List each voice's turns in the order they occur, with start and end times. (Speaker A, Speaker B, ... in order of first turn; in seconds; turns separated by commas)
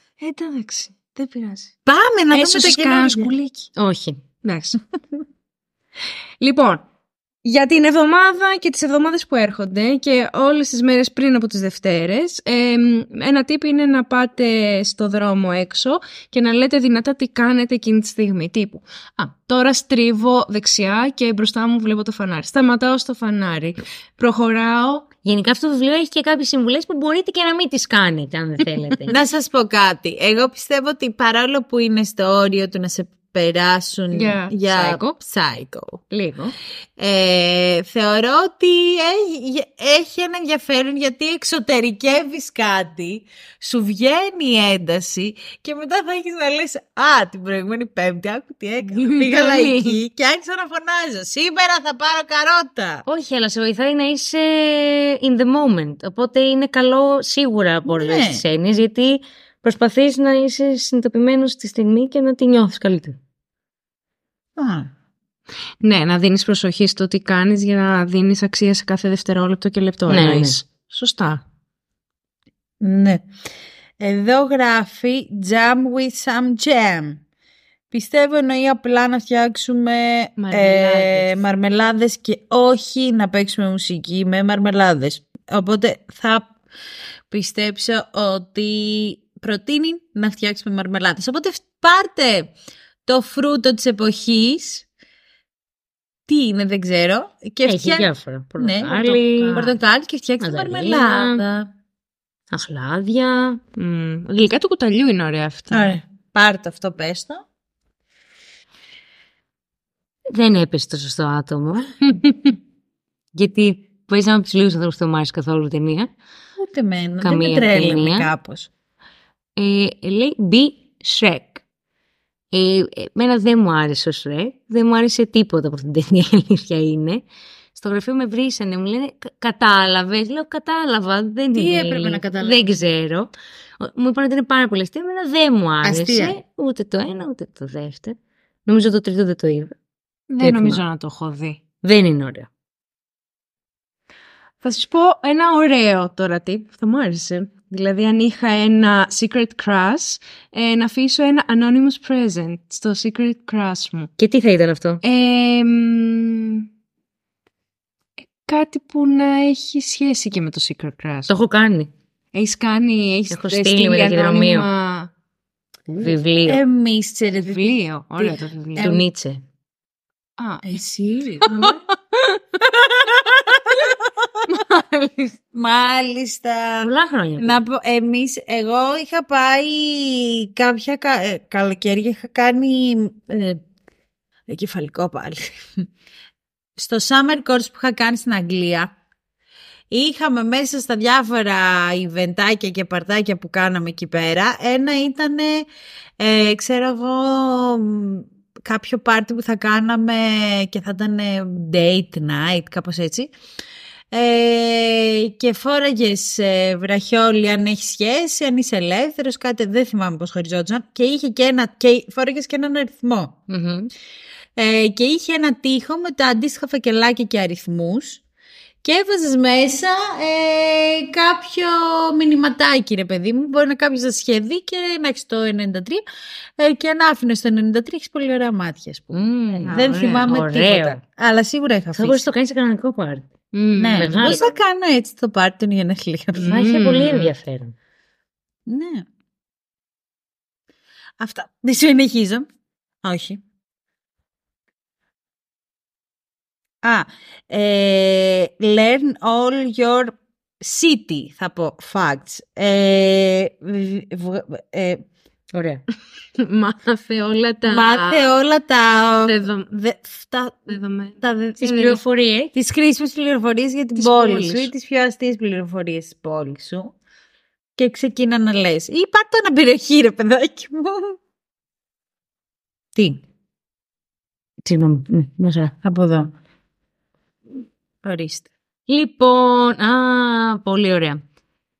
Speaker A: 0.2-1.7, Speaker B: 1.9-3.3, Speaker A: 2.3-3.7, Speaker C: 3.8-4.2, Speaker A: 4.4-4.8, Speaker A: 6.4-6.8, Speaker A: 7.4-25.1, Speaker C: 25.2-29.2, Speaker B: 29.1-36.0, Speaker A: 34.1-35.1, Speaker A: 36.1-36.5, Speaker B: 37.0-53.0, Speaker A: 48.8-50.0, Speaker C: 53.1-63.2, Speaker B: 57.9-58.4, Speaker B: 64.6-64.9, Speaker A: 65.8-71.4, Speaker C: 70.1-70.6, Speaker B: 72.8-73.2, Speaker B: 74.0-77.2, Speaker B: 77.9-86.5, Speaker A: 80.4-81.3, Speaker B: 87.3-92.5, Speaker B: 93.1-94.9, Speaker B: 96.3-101.7, Speaker C: 97.7-99.7, Speaker A: 99.4-99.7, Speaker C: 100.4-101.4, Speaker C: 102.5-103.6, Speaker A: 103.8-105.9, Speaker B: 105.7-107.4, Speaker C: 110.3-111.9, Speaker A: 112.2-112.5, Speaker C: 113.3-116.1, Speaker B: 116.6-118.7, Speaker C: 117.2-118.3, Speaker C: 119.6-121.6, Speaker C: 122.5-127.2, Speaker C: 127.8-139.7, Speaker B: 131.5-132.7, Speaker B: 135.8-136.4, Speaker A: 140.3-141.6, Speaker C: 140.4-140.8, Speaker C: 141.8-142.5, Speaker A: 144.6-154.1, Speaker C: 154.2-155.0, Speaker A: 155.0-156.7, Speaker A: 158.5-161.3, Speaker C: 161.3-161.9, Speaker A: 162.3-165.1, Speaker C: 163.3-164.7, Speaker C: 166.0-166.6, Speaker B: 166.5-169.1, Speaker A: 167.5-168.9, Speaker C: 168.8-169.4, Speaker A: 170.4-170.8, Speaker B: 170.7-171.8, Speaker A: 171.4-172.6, Speaker B: 172.6-174.6, Speaker A: 174.5-175.3, Speaker B: 175.5-183.6, Speaker C: 176.8-177.5, Speaker B: 184.5-185.9, Speaker B: 186.8-188.9, Speaker B: 189.9-195.7, Speaker B: 196.2-203.3, Speaker B: 204.1-213.4, Speaker C: 213.5-213.9, Speaker B: 214.6-218.2, Speaker B: 218.8-226.0, Speaker B: 226.6-232.2, Speaker C: 229.1-231.0, Speaker A: 229.6-230.3, Speaker C: 231.9-233.3, Speaker A: 233.5-234.4, Speaker B: 233.8-236.5, Speaker C: 234.0-234.4, Speaker A: 236.4-237.3, Speaker C: 236.4-237.8, Speaker B: 238.7-239.1, Speaker B: 241.2-242.5, Speaker B: 243.0-243.4, Speaker B: 246.8-255.0, Speaker C: 255.5-255.8, Speaker A: 256.4-258.2, Speaker B: 257.6-261.6, Speaker A: 259.2-260.0, Speaker A: 260.7-262.0, Speaker C: 261.6-262.5, Speaker B: 262.5-266.9, Speaker A: 264.0-264.7, Speaker B: 267.8-271.2, Speaker C: 274.6-275.7, Speaker B: 275.8-276.3, Speaker B: 278.0-278.5, Speaker C: 278.9-281.2